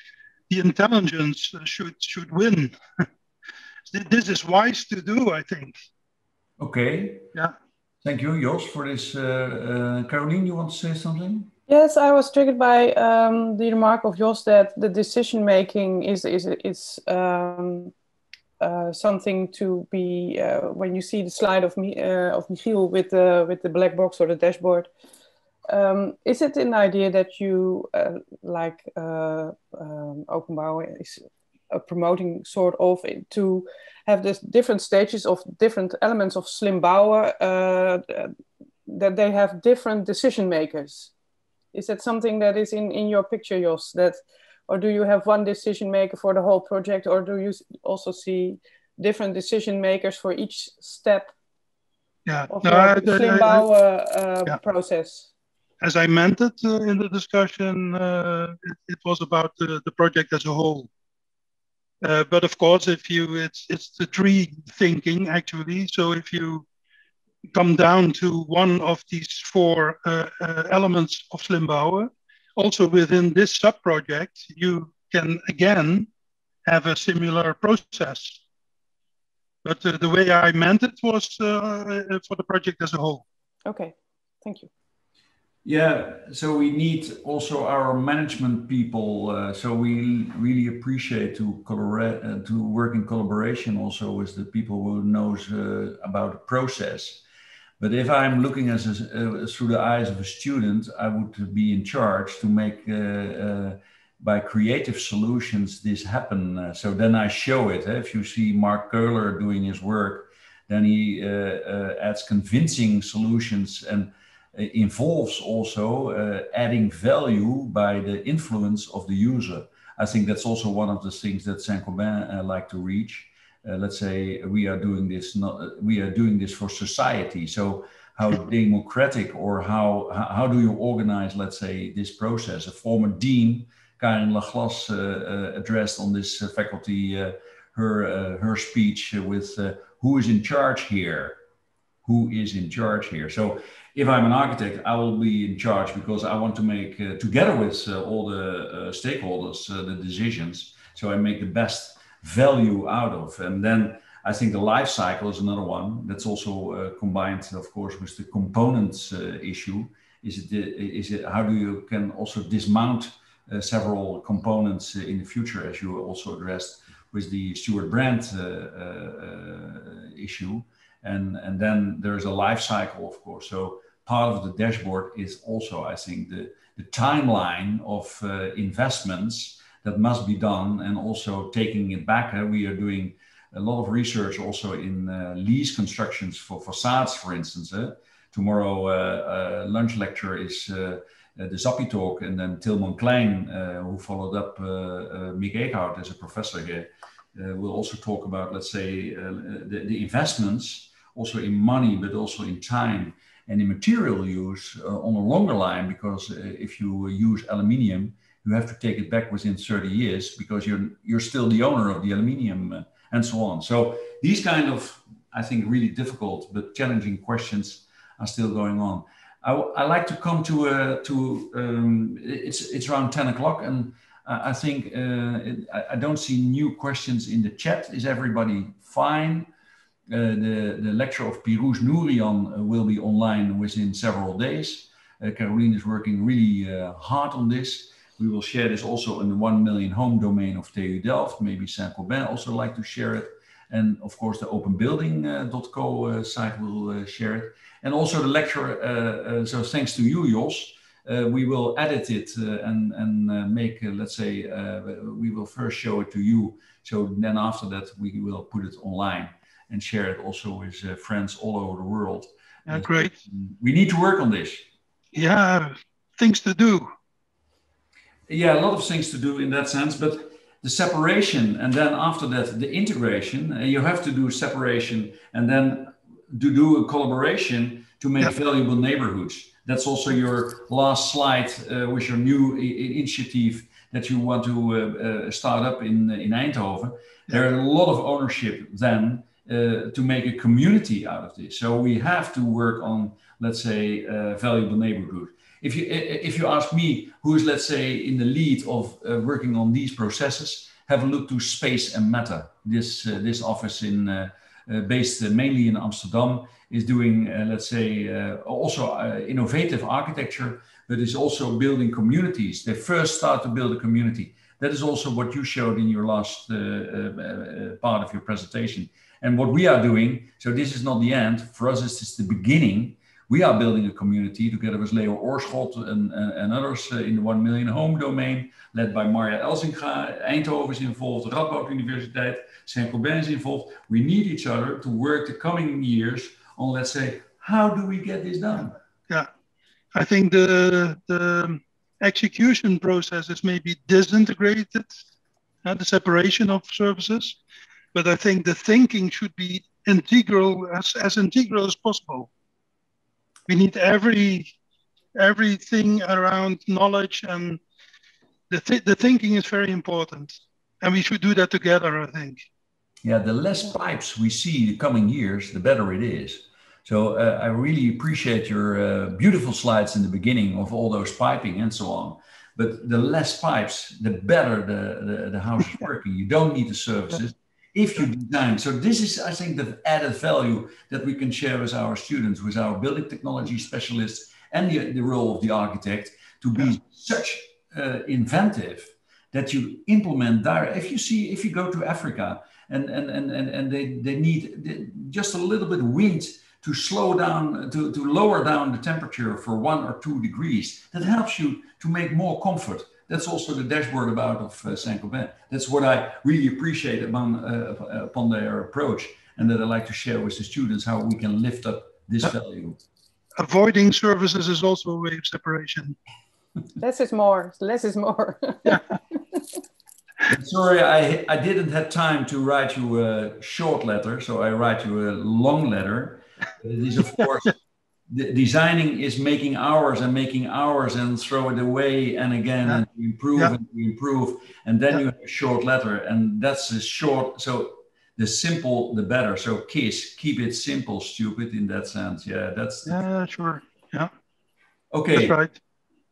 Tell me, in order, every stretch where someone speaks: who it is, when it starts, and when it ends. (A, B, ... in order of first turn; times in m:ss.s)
0:00.5-0:02.7 A
0:03.9-0:05.8 A
0:06.6-0:07.3 B
0:08.0-0:11.5 B
0:11.7-0:17.9 C
0:18.6-0:24.9 C
0:25.7-0:38.3 C
0:38.9-0:41.1 C
0:41.7-0:51.3 C
0:52.3-0:53.6 A
0:52.5-0:55.3 C
0:55.8-1:00.9 A
1:02.0-1:06.7 A
1:07.5-1:16.1 A
1:16.7-1:18.4 A
1:19.6-1:23.2 A
1:23.7-1:24.7 C
1:25.6-1:37.2 B
1:37.8-2:21.4 B
2:22.0-3:49.5 B
3:50.1-4:24.7 B
4:22.7-4:23.1 A
4:25.1-4:26.9 A
4:28.3-5:38.8 B
5:39.9-5:44.9 A
5:45.6-5:47.4 A
5:47.9-5:52.3 A
5:53.5-5:54.5 A
5:55.2-5:57.6 A
5:58.5-6:02.4 A
6:03.0-6:52.8 B
6:53.4-6:56.0 A
6:56.8-6:58.8 C
7:00.3-7:07.6 B
7:08.1-7:23.0 B
7:22.9-7:24.1 A
7:24.9-7:25.4 B
7:25.1-7:25.6 A